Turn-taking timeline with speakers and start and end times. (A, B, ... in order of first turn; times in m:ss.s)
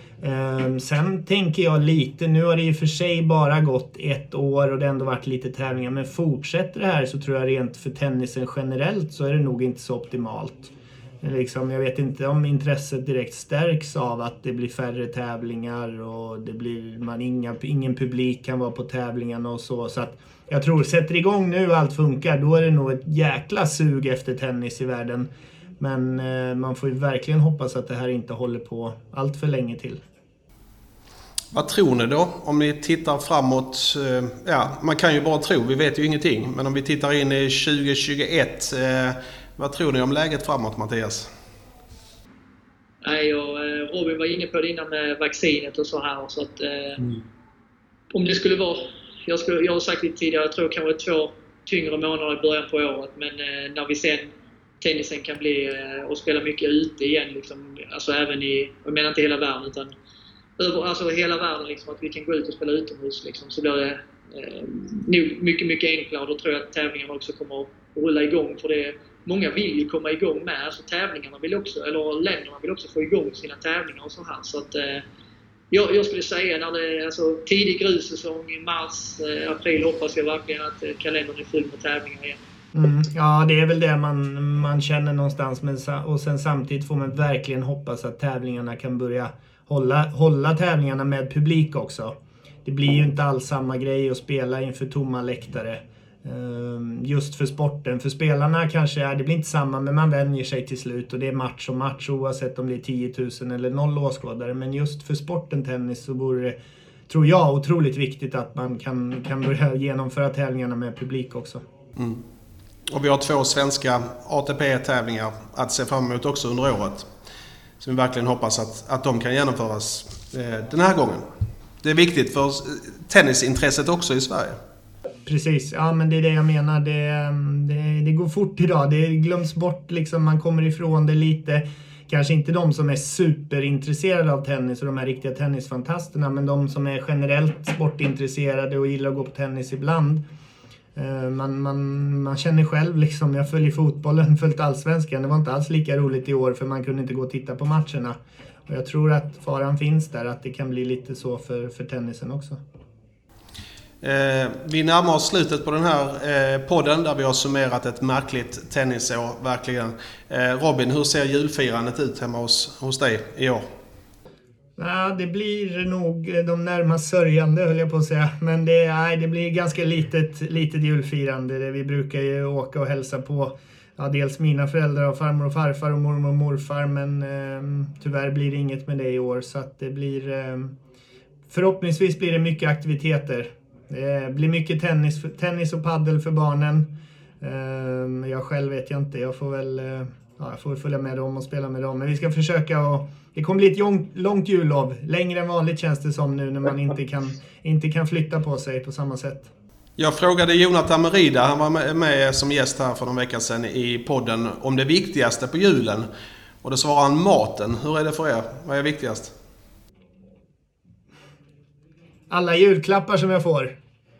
0:00.2-0:30.0 A
0:31.5-0:41.3 B
0:43.0-0:47.0 C
0:48.1-1:00.0 C
1:00.6-1:15.0 C
1:15.7-1:22.4 C
1:22.7-1:46.6 A
1:47.1-1:51.6 A
1:52.0-1:52.2 B
1:52.9-1:57.1 B
1:57.8-2:01.2 B
2:01.8-2:04.6 B
2:05.3-2:20.2 A
2:21.0-2:28.2 A
2:28.7-2:32.6 A
2:34.0-2:43.6 B
2:44.8-3:00.7 A
3:01.5-3:19.5 A
3:20.0-3:26.1 B
3:26.6-3:29.3 B
3:32.3-3:33.8 A